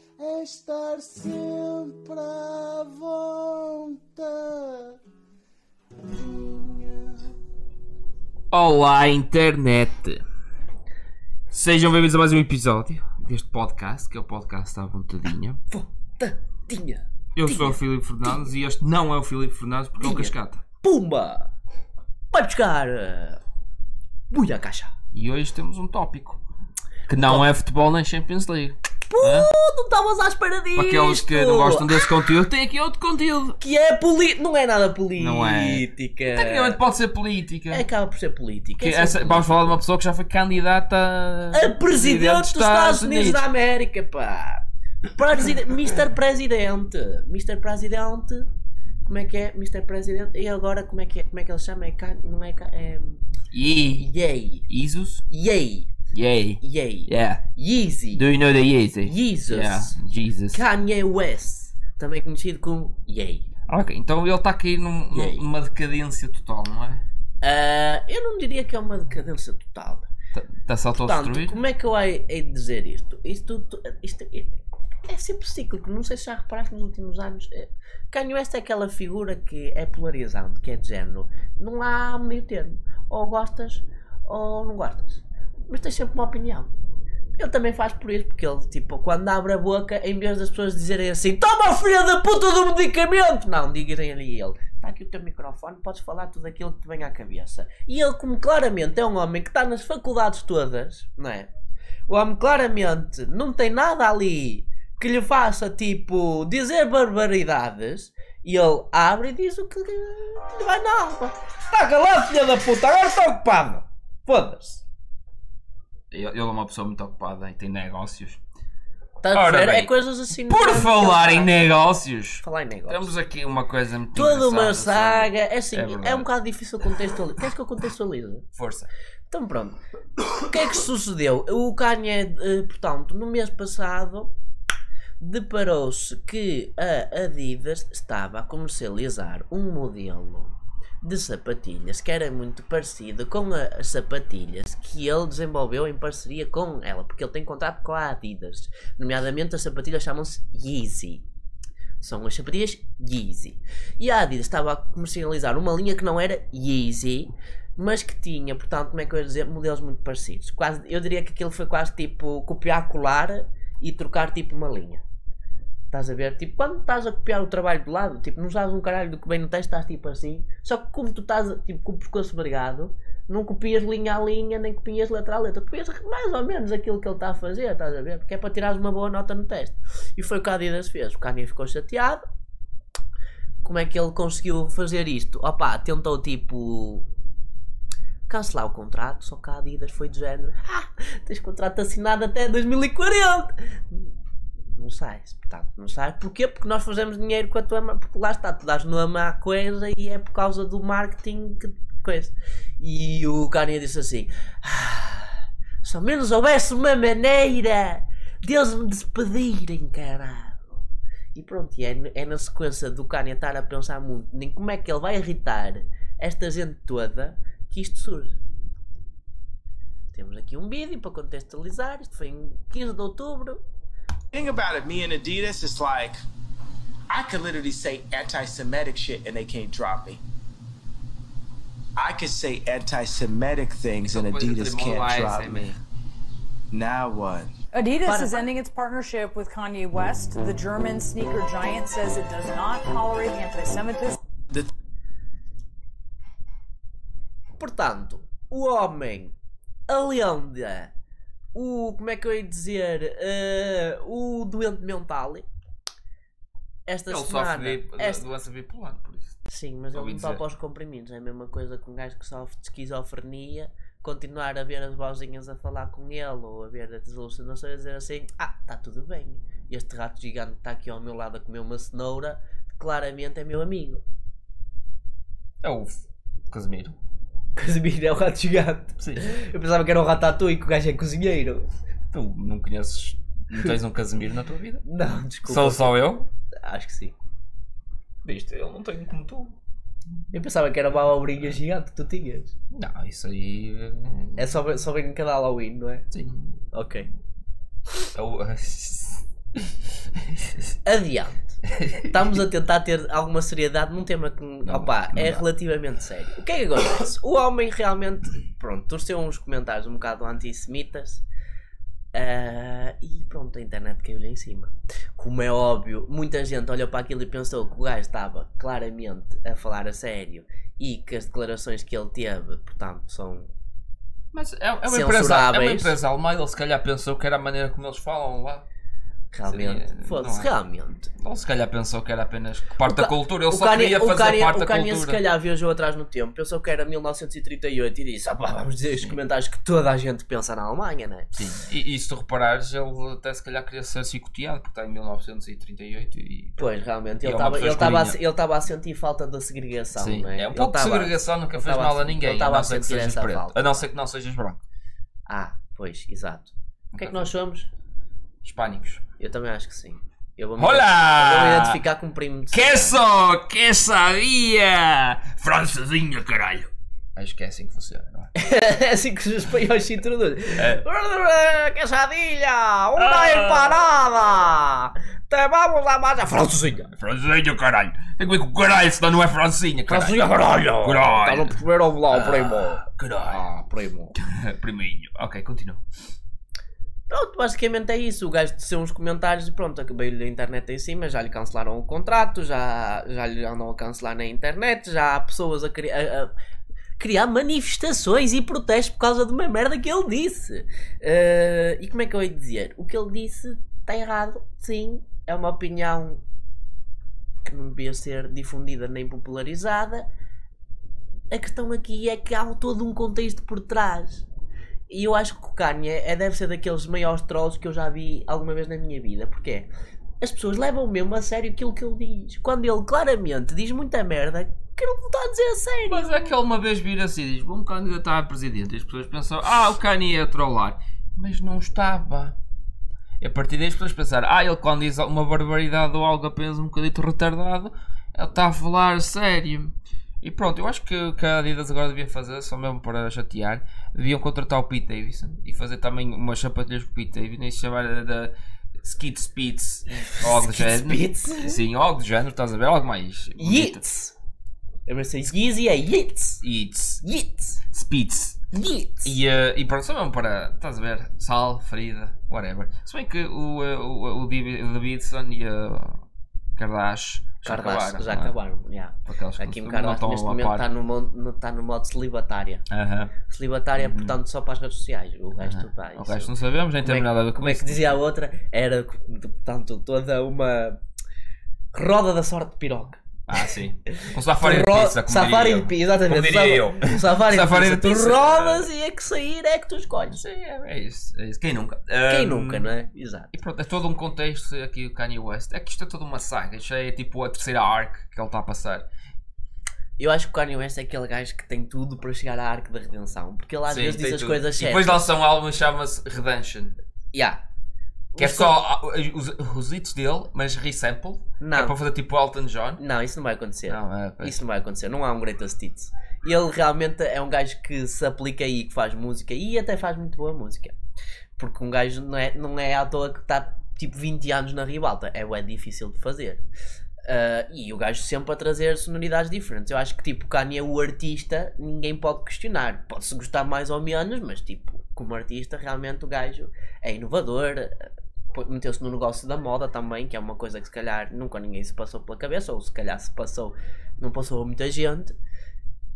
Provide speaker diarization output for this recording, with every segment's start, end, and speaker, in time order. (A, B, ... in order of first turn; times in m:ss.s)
0:00.2-0:05.0 A
0:06.1-0:07.3 A
0:08.5-0:10.2 B
0:11.5-0:15.6 B
0:15.7-0:18.3 C
0:17.4-0:20.6 B
0:20.0-0:21.5 C
0:22.3-0:23.4 C
0:24.3-0:24.9 C
0:25.1-0:26.4 B
0:27.1-0:29.5 B
0:27.2-0:27.5 C
0:29.1-0:31.9 C
0:30.8-0:33.6 B
0:33.6-0:36.8 C
0:35.2-0:37.8 B
0:37.7-0:39.8 C
0:38.8-0:43.4 B
0:41.5-0:48.5 C
0:49.0-0:53.2 C
0:53.5-0:54.1 B
0:54.0-0:54.7 C
0:54.7-0:55.2 B
0:55.3-0:55.9 C
0:56.1-0:57.4 B
0:56.6-0:58.3 C
0:58.1-1:00.6 B
0:59.0-1:00.0 C
1:00.5-1:03.4 C
1:03.7-1:07.0 B
1:05.1-1:05.4 C
1:07.4-1:10.1 C
1:10.3-1:11.6 B
1:11.0-1:26.7 C
1:27.4-1:41.5 C
1:42.1-1:54.8 C
1:56.1-1:58.4 B
1:59.2-2:01.6 C
1:59.3-1:59.9 B
2:00.5-2:06.3 B
2:02.4-2:03.1 C
2:04.1-2:08.4 C
2:08.6-2:08.9 B
2:09.3-2:09.8 C
2:10.4-2:14.3 C
2:15.2-2:31.2 C
2:32.0-2:45.0 C
2:45.9-3:02.2 C
3:03.6-3:07.1 C
3:08.3-3:14.1 C
3:14.7-3:30.8 C
3:31.3-3:38.4 C
3:40.1-3:43.6 C
3:44.3-3:46.2 D
3:47.1-3:50.2 D
3:52.0-3:55.8 D
3:54.0-3:55.8 B
3:56.7-3:57.5 D
3:57.7-4:04.2 E
3:58.0-3:58.5 C
4:07.6-4:09.4 C
4:09.9-4:10.9 C
4:11.5-4:15.4 C
4:16.9-4:18.2 C
4:17.1-4:19.4 B
4:19.5-4:34.0 C
4:19.9-4:20.4 B
4:35.6-4:36.0 B
4:36.5-4:37.0 B
4:37.6-4:41.7 C
4:39.0-4:39.2 B
4:42.1-4:44.8 B
4:44.8-4:46.0 C
4:45.4-4:46.3 B
4:46.7-4:47.1 C
4:48.2-4:49.6 B
4:50.3-4:52.5 C
4:52.7-4:54.5 B
4:54.4-4:56.0 C
4:56.1-4:56.6 B
4:56.7-4:57.1 C
4:58.1-5:00.7 B
5:00.8-5:11.2 C
5:01.7-5:02.0 B
5:04.7-5:05.4 B
5:12.1-5:23.5 C
5:24.3-5:28.7 B
5:24.9-5:25.9 C
5:29.3-5:31.1 C
5:29.5-5:30.5 B
5:31.2-5:35.2 B
5:32.9-5:41.3 C
5:41.3-5:48.2 B
5:46.6-5:53.9 C
5:50.0-5:54.6 B
5:55.3-5:57.7 C
5:56.9-5:57.3 B
5:58.4-5:59.0 B
5:59.2-6:03.0 C
6:00.6-6:01.8 B
6:02.5-6:08.3 B
6:08.4-6:16.9 C
6:13.0-6:13.8 B
6:16.9-6:21.6 B
6:19.9-6:24.1 C
6:22.1-6:23.4 B
6:24.2-6:25.8 B
6:27.1-6:36.3 C
6:37.0-6:46.2 C
6:47.4-6:50.1 C
6:51.3-6:54.3 C
6:54.9-6:59.7 C
7:00.2-7:06.3 C
7:05.9-7:12.4 B
7:13.2-7:33.8 B
7:29.9-7:31.6 C
7:33.4-7:34.1 C
7:34.9-7:36.4 C
7:36.4-7:37.0 B
7:37.0-7:37.6 C
7:37.7-7:38.4 B
7:38.5-7:39.2 C
7:39.1-7:46.0 B
7:46.6-7:48.4 B
7:47.4-7:52.6 C
7:49.1-7:50.6 B
7:52.7-7:53.1 B
7:53.3-8:00.8 C
7:53.8-7:54.1 B
7:55.4-7:58.0 B
8:01.7-8:03.0 C
8:03.3-8:08.7 B
8:04.0-8:10.2 C
8:10.1-8:12.7 B
8:12.1-8:13.3 C
8:13.3-8:18.9 B
8:20.0-8:25.1 C
8:23.7-8:26.7 B
8:27.1-8:27.4 C
8:28.2-8:28.5 C
8:28.2-8:32.8 B
8:31.4-8:31.8 C
8:32.8-8:40.7 C
8:33.7-8:34.3 B
8:41.4-8:46.4 C
8:47.0-9:05.2 C